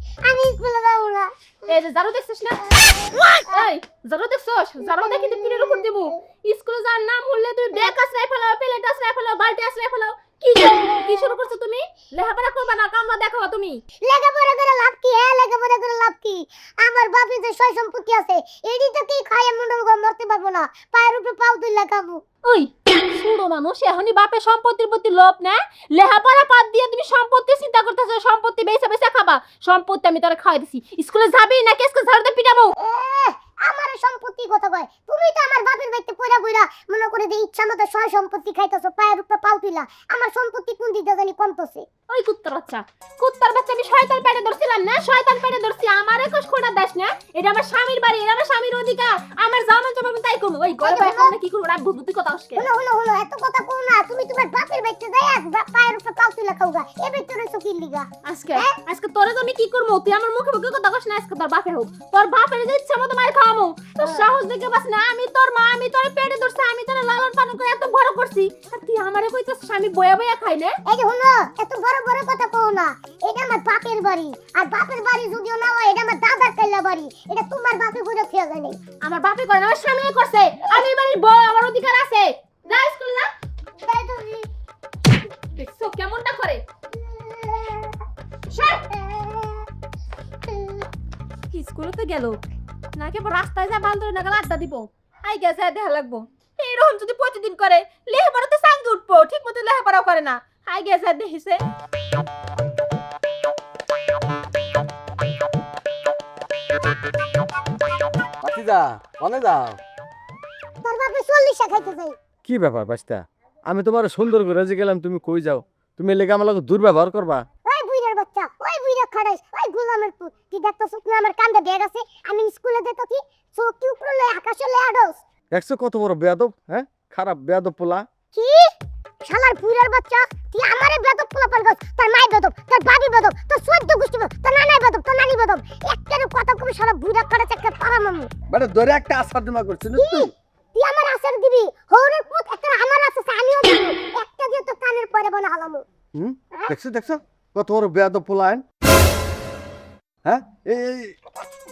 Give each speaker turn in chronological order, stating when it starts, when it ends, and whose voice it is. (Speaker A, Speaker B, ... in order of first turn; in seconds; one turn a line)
Speaker A: 0.2-1.3
Speaker B: 1.6-13.8
Speaker A: 14.0-22.2
Speaker B: 22.4-32.7
Speaker A: 32.8-41.9
Speaker B: 42.1-52.6
Speaker A: 50.8-51.4
Speaker A: 52.5-58.8
Speaker B: 58.2-70.8
Speaker A: 70.8-78.8
Speaker B: 79.0-83.3
Speaker A: 83.8-84.5
Speaker B: 85.5-86.6
Speaker A: 87.1-88.0
Speaker B: 88.5-88.8
Speaker A: 88.5-89.6
Speaker A: 90.5-90.8
Speaker B: 91.5-92.4
Speaker B: 92.9-101.6
Speaker C: 108.4-109.8
Speaker A: 110.8-112.2
Speaker C: 112.4-117.5
Speaker A: 117.6-125.2
Speaker C: 125.5-128.1
Speaker A: 128.3-138.3
Speaker C: 138.5-140.3
Speaker A: 139.9-145.8
Speaker C: 146.1-148.6
Speaker C: 150.2-151.2